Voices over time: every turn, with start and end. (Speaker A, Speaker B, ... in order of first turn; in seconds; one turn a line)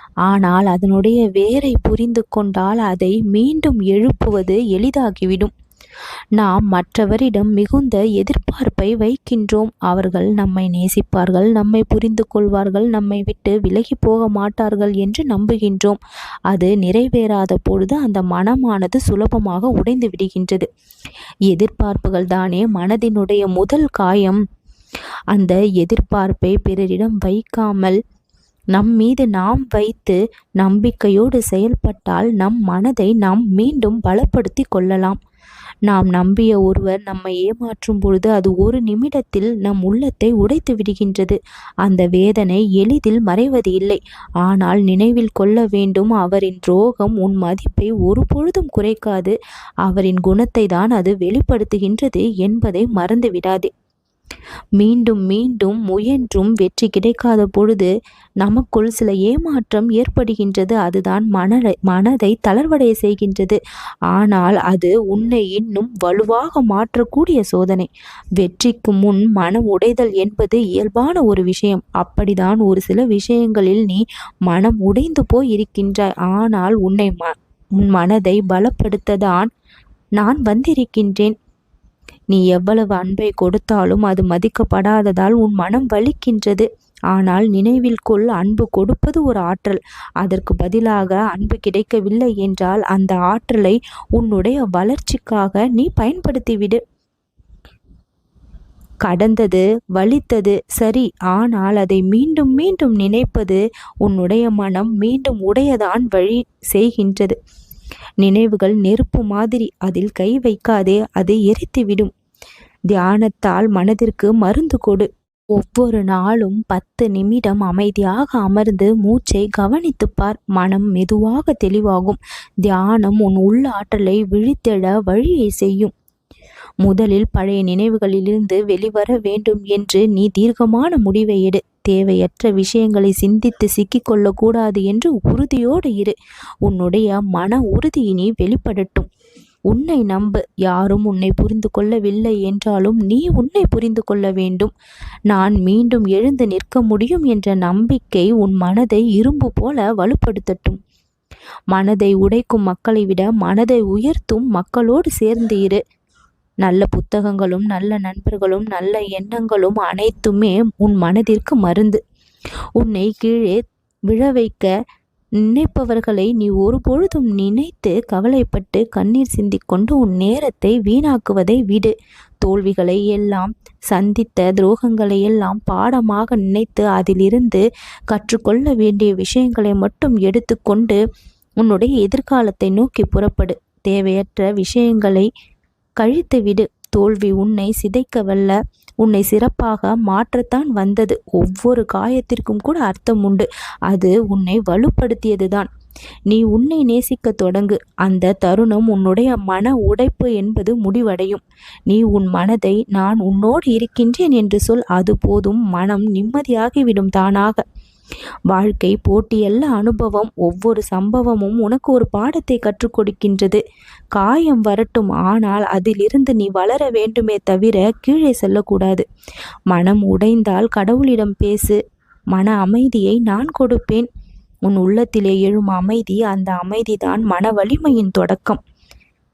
Speaker A: 0.2-5.5
Speaker A: 6.3-16.0
Speaker A: 16.5-20.7
Speaker A: 21.5-24.4
Speaker A: 25.3-28.0
Speaker A: 28.7-35.2
Speaker A: 35.9-53.7
Speaker A: 54.8-57.9
Speaker A: 58.4-63.6
Speaker A: 64.1-79.5
Speaker A: 80.2-81.3
Speaker A: 82.3-96.8
Speaker A: 99.0-107.3
Speaker A: 108.2-112.1
Speaker A: 112.9-125.9
Speaker A: 126.8-139.1
Speaker A: 139.7-144.7
Speaker A: 145.3-150.8
Speaker A: 151.7-155.8
Speaker A: 156.6-162.0
Speaker A: 162.8-163.6
Speaker A: 164.1-164.7
Speaker A: 165.4-181.0
Speaker A: 181.6-185.3
Speaker A: 186.0-195.7
Speaker A: 196.3-207.6
Speaker A: 208.5-213.6
Speaker A: 214.1-219.0
Speaker A: 219.7-221.8
Speaker A: 222.3-224.1
Speaker A: 224.7-228.6